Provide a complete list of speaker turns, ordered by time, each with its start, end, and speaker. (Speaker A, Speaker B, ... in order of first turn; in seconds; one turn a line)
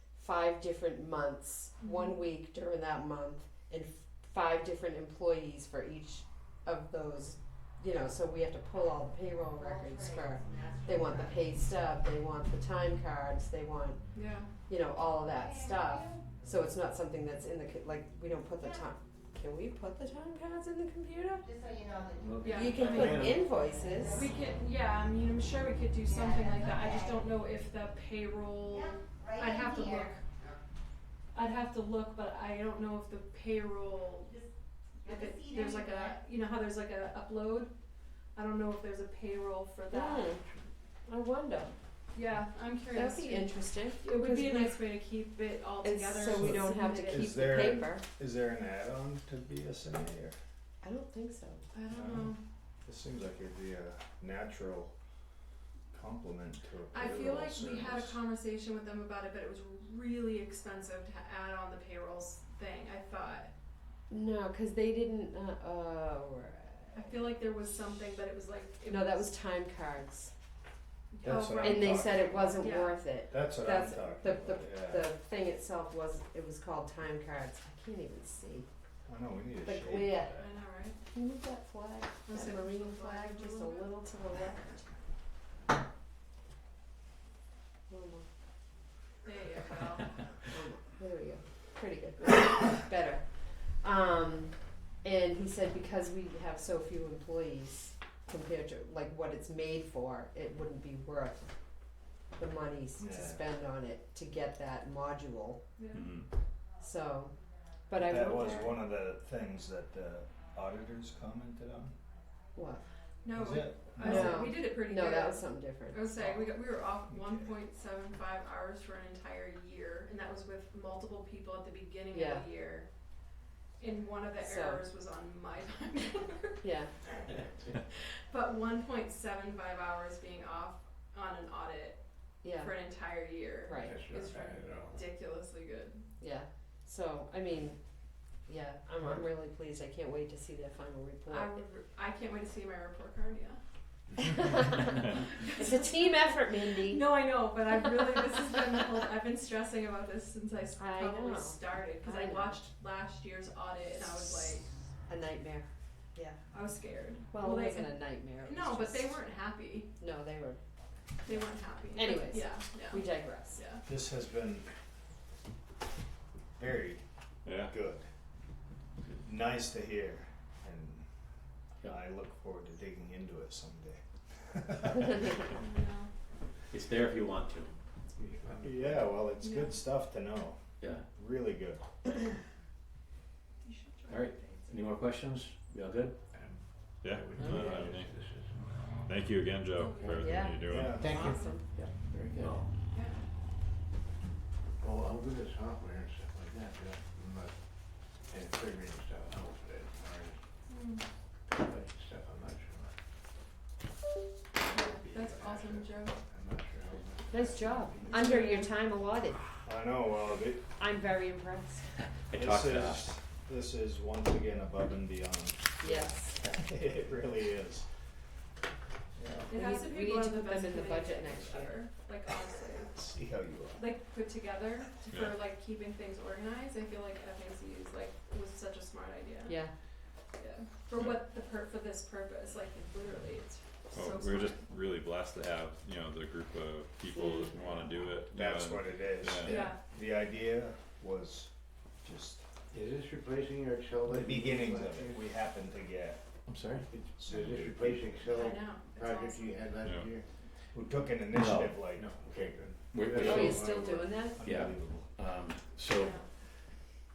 Speaker A: 0.1-14.0
Speaker B: 1.8-2.2
Speaker C: 9.9-11.1
Speaker B: 14.1-14.5
Speaker A: 14.7-21.6
Speaker C: 21.5-24.3
Speaker B: 22.4-23.2
Speaker A: 22.5-24.2
Speaker D: 22.9-23.4
Speaker B: 24.2-30.2
Speaker C: 26.1-27.0
Speaker C: 28.9-30.1
Speaker B: 31.3-34.4
Speaker B: 35.0-37.7
Speaker C: 35.1-36.1
Speaker B: 38.4-40.4
Speaker A: 39.9-40.4
Speaker A: 41.1-41.8
Speaker B: 42.1-47.3
Speaker A: 42.9-44.8
Speaker A: 45.8-48.0
Speaker D: 46.2-50.4
Speaker A: 50.8-51.7
Speaker B: 51.7-52.4
Speaker D: 51.9-52.3
Speaker D: 52.9-54.9
Speaker D: 55.9-58.1
Speaker B: 56.9-63.5
Speaker A: 64.1-67.2
Speaker B: 66.9-69.3
Speaker A: 68.9-70.3
Speaker B: 71.1-73.0
Speaker D: 71.2-72.8
Speaker A: 71.6-78.7
Speaker D: 73.3-75.1
Speaker D: 79.1-80.5
Speaker A: 79.6-80.4
Speaker B: 80.3-81.0
Speaker A: 81.1-84.8
Speaker B: 82.3-83.9
Speaker A: 87.9-88.3
Speaker B: 89.2-90.1
Speaker A: 90.5-93.3
Speaker A: 93.8-101.5
Speaker A: 102.4-105.6
Speaker D: 103.0-103.5
Speaker B: 105.8-106.1
Speaker E: 105.9-106.3
Speaker A: 106.8-107.3
Speaker A: 107.9-108.8
Speaker D: 107.9-112.0
Speaker A: 112.5-112.8
Speaker B: 113.2-122.9
Speaker D: 113.3-114.6
Speaker A: 114.0-116.0
Speaker A: 122.1-122.5
Speaker B: 123.8-132.0
Speaker A: 124.4-124.8
Speaker A: 126.6-126.9
Speaker A: 132.4-132.8
Speaker B: 132.6-136.0
Speaker A: 133.7-134.0
Speaker F: 133.8-135.1
Speaker A: 136.2-137.8
Speaker A: 138.5-141.6
Speaker B: 141.3-143.6
Speaker A: 144.2-147.1
Speaker B: 145.1-154.7
Speaker A: 150.8-152.6
Speaker A: 155.1-156.4
Speaker B: 156.5-159.9
Speaker A: 157.3-159.2
Speaker A: 160.0-160.6
Speaker B: 161.2-163.9
Speaker A: 162.0-163.6
Speaker D: 163.9-164.7
Speaker D: 166.6-167.0
Speaker G: 167.5-167.7
Speaker D: 167.6-168.1
Speaker D: 169.2-171.1
Speaker D: 171.8-175.5
Speaker B: 175.6-176.1
Speaker E: 176.7-177.7
Speaker F: 178.2-179.1
Speaker D: 178.6-181.9
Speaker B: 179.4-179.8
Speaker E: 180.8-181.1
Speaker B: 183.6-184.8
Speaker E: 184.1-186.2
Speaker F: 186.3-188.6
Speaker G: 187.0-188.1
Speaker G: 189.1-191.1
Speaker B: 189.8-190.1
Speaker A: 190.2-191.9
Speaker D: 190.7-191.1
Speaker F: 191.0-191.5
Speaker F: 192.1-192.7
Speaker E: 192.3-192.6
Speaker B: 192.9-193.2
Speaker F: 194.8-197.5
Speaker F: 198.3-200.4
Speaker B: 200.7-201.1
Speaker F: 201.5-202.9
Speaker B: 204.7-206.2
Speaker F: 204.8-208.3
Speaker A: 207.3-209.4
Speaker B: 208.2-208.7
Speaker D: 209.6-210.7
Speaker A: 210.8-211.9
Speaker E: 212.3-213.1
Speaker D: 212.3-217.9
Speaker A: 215.8-216.4
Speaker D: 219.2-219.5
Speaker B: 219.5-223.0
Speaker A: 219.5-221.8
Speaker D: 222.9-223.9
Speaker B: 223.8-229.6
Speaker G: 225.1-225.5
Speaker B: 230.4-234.6
Speaker G: 233.9-239.7
Speaker A: 237.1-237.9
Speaker D: 238.3-241.5
Speaker B: 239.5-239.8
Speaker D: 242.0-242.4
Speaker F: 242.7-245.3
Speaker D: 244.1-246.2
Speaker E: 246.5-246.8
Speaker F: 246.9-250.3
Speaker D: 247.2-248.1
Speaker B: 248.3-249.5
Speaker G: 249.8-250.1
Speaker D: 250.7-252.1
Speaker E: 251.3-251.8
Speaker F: 251.9-254.1
Speaker E: 252.9-253.8
Speaker A: 253.2-254.4
Speaker D: 253.2-255.1
Speaker E: 254.4-256.2
Speaker B: 256.0-256.3